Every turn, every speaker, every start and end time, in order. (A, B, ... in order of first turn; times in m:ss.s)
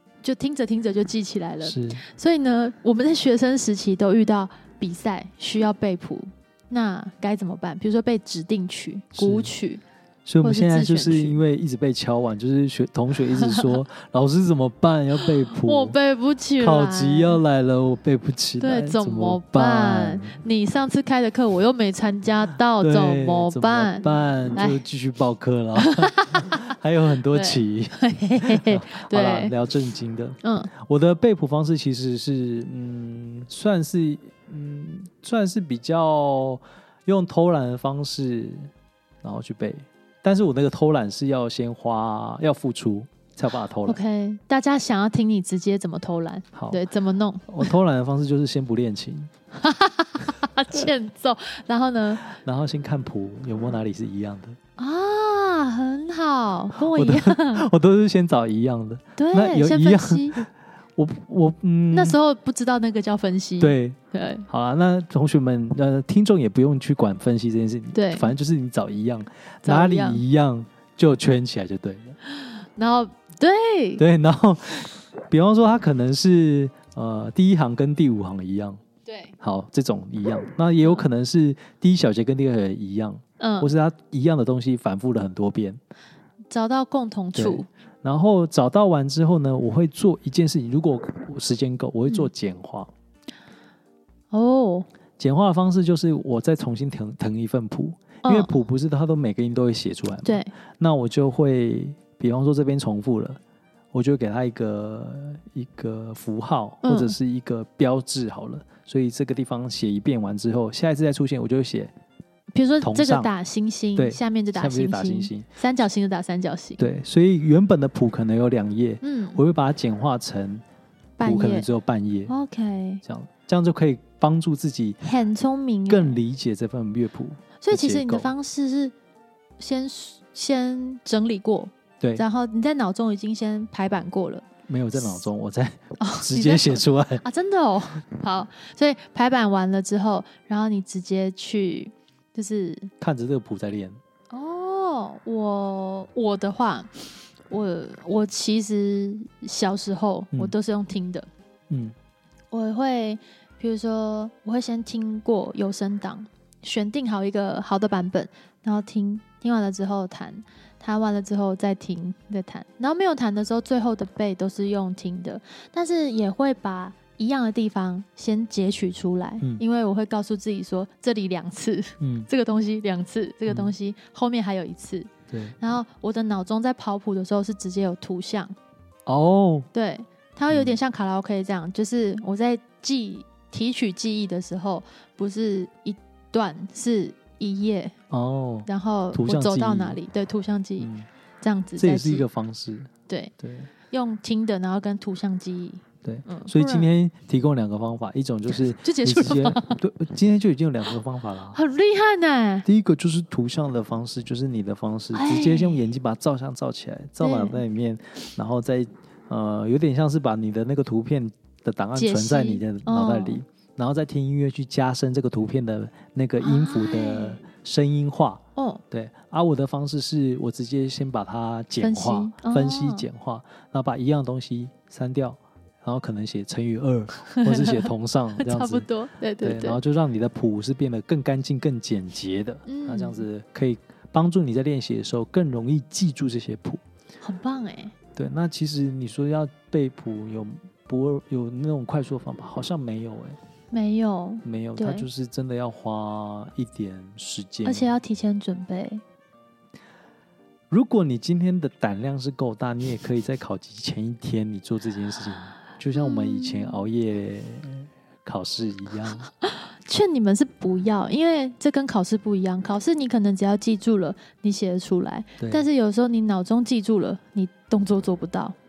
0:00.2-0:09.8 A
0:01.6-0:02.0 B
0:09.1-0:09.5 B
0:10.2-0:16.0 B
0:10.4-0:11.4 A
0:13.4-0:13.8 A
0:15.5-0:17.4 A
0:16.6-0:20.3 B
0:18.6-0:24.8 A
0:22.8-0:38.7 B
0:25.8-0:26.7 A
0:27.3-0:29.5 A
0:30.4-0:30.7 A
0:39.2-0:44.0 B
0:43.8-0:47.7 A
0:46.5-0:46.8 B
0:47.5-0:49.3 B
0:49.5-0:52.3 A
0:52.3-0:54.6 B
0:54.8-0:57.6 A
0:56.8-1:02.2 B
0:59.2-1:00.4 A
1:01.9-1:04.4 A
1:03.6-1:04.0 B
1:04.5-1:12.2 B
1:07.9-1:08.3 A
1:09.6-1:10.2 A
1:12.2-1:14.0 A
1:14.0-1:18.8 B
1:19.1-1:19.3 A
1:19.4-1:25.8 B
1:20.8-1:21.0 A
1:23.4-1:23.7 A
1:26.5-1:27.7 A
1:27.3-1:32.9 B
1:34.3-1:34.9 A
1:35.2-1:43.4 B
1:38.2-1:38.5 A
1:40.2-1:40.5 A
1:43.9-1:51.9 B
1:46.8-1:47.1 A
1:52.5-1:56.8 A
1:52.8-1:53.3 B
1:53.9-1:55.5 B
1:56.8-2:00.6 B
1:59.0-1:59.4 A
2:01.2-2:01.7 A
2:01.2-2:02.3 B
2:02.3-2:03.0 A
2:03.0-2:05.0 B
2:05.0-2:06.2 A
2:05.9-2:08.3 B
2:07.6-2:08.9 A
2:09.6-2:14.4 A
2:14.7-2:17.2 B
2:16.0-2:22.9 A
2:23.0-2:24.0 B
2:24.3-2:26.9 A
2:27.5-2:31.3 A
2:32.5-2:58.5 A
2:52.0-2:52.3 B
2:53.5-2:53.7 B
2:55.3-2:55.6 B
2:59.1-2:59.7 B
2:59.7-3:07.9 A
3:00.5-3:00.8 B
3:08.1-3:10.0 B
3:08.6-3:10.9 A
3:10.8-3:11.1 B
3:11.4-3:12.2 A
3:11.8-3:13.7 B
3:13.1-3:16.9 A
3:16.0-3:21.6 B
3:18.5-3:19.8 A
3:21.5-3:22.7 A
3:22.6-3:48.9 B
3:25.1-3:25.9 A
3:27.2-3:27.6 A
3:31.9-3:33.4 A
3:36.4-3:37.4 A
3:38.6-3:38.8 A
3:41.8-3:43.0 A
3:47.3-3:49.8 A
3:49.4-3:56.8 B
3:52.6-3:53.2 A
3:57.2-3:57.9 A
3:58.1-4:03.4 B
4:03.7-4:05.0 A
4:04.4-4:08.0 B
4:07.6-4:09.0 A
4:10.7-4:19.3 B
4:15.9-4:16.8 A
4:19.4-4:28.5 A
4:25.4-4:25.7 B